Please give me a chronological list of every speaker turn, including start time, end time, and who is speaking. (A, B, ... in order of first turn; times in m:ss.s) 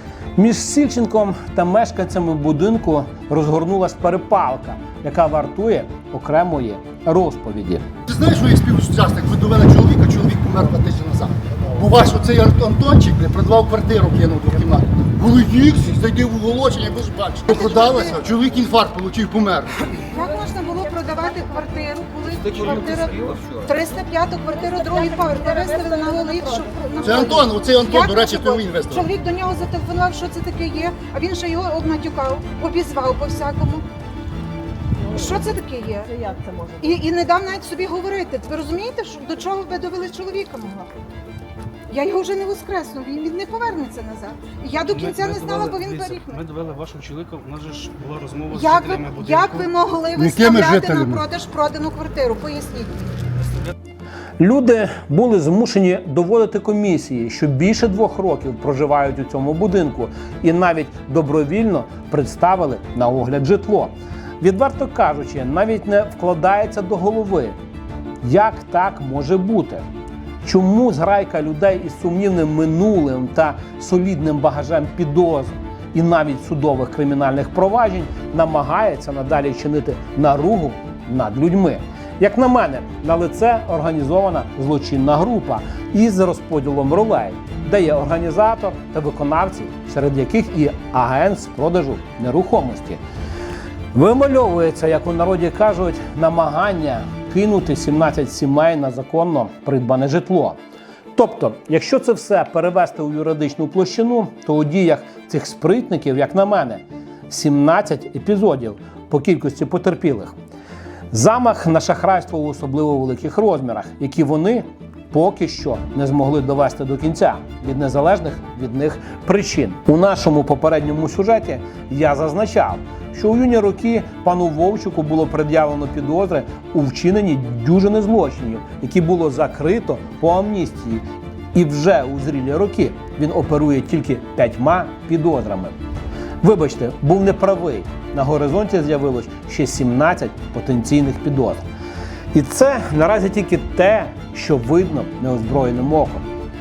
0:00.4-0:07.9 A
0:08.1-0:20.0 B
0:17.5-0:18.2 C
0:20.1-0:33.8 C
0:20.2-0:21.8 D
0:24.5-0:27.3 D
0:27.0-0:29.1 B
0:35.1-0:36.1 C
0:36.1-0:36.8 D
0:36.8-0:40.9 C
0:41.9-0:46.4 C
0:45.0-0:49.5 E
0:48.5-0:53.0 C
0:50.2-0:51.2 B
0:54.4-1:07.6 A
1:08.2-1:09.8 A
1:10.4-1:33.0 A
1:33.9-1:40.6 A
1:41.1-1:50.3 A
1:51.1-2:15.8 A
2:16.4-2:21.6 A
2:22.3-2:26.2 A